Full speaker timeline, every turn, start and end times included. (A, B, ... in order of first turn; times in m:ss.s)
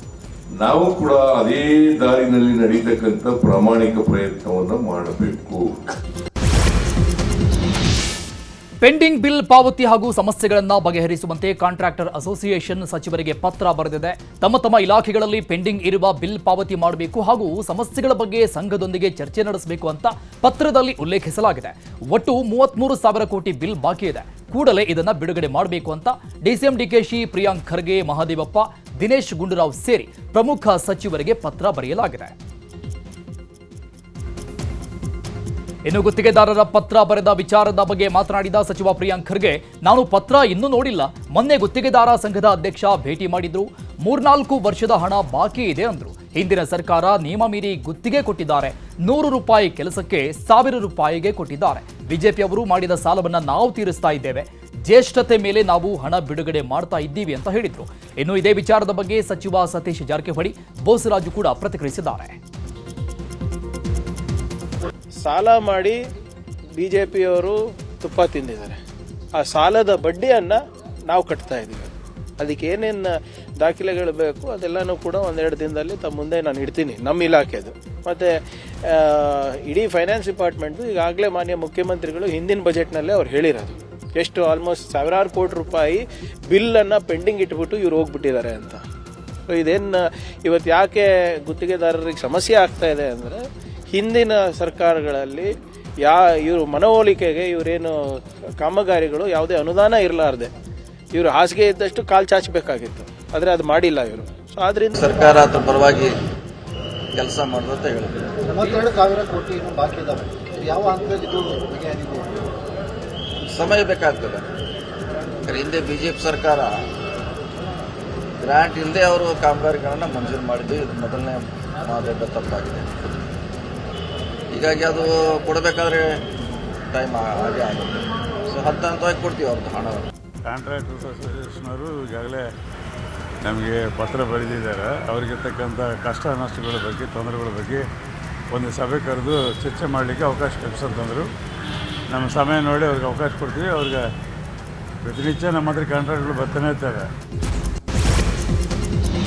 0:00.6-0:05.7 A
0:08.8-0:32.3 B
0:35.8-1:02.4 B
1:05.2-1:06.0 C
1:06.8-1:08.8 C
1:09.3-1:10.6 C
1:11.1-1:18.3 C
1:18.9-1:28.8 C
1:29.5-1:35.5 C
1:36.0-1:37.9 C
1:38.6-1:40.5 C
1:41.1-1:44.9 C
1:45.0-1:46.1 D
1:47.1-1:48.2 D
1:48.5-1:52.2 E
1:53.5-1:54.5 D
1:55.5-1:56.8 D
1:58.4-2:03.2 D
2:04.5-2:06.1 D
2:06.9-2:10.1 D
2:10.4-2:12.5 F
2:13.4-2:17.9 F
2:18.5-2:21.3 F
2:22.1-2:24.0 F
2:25.0-2:27.1 F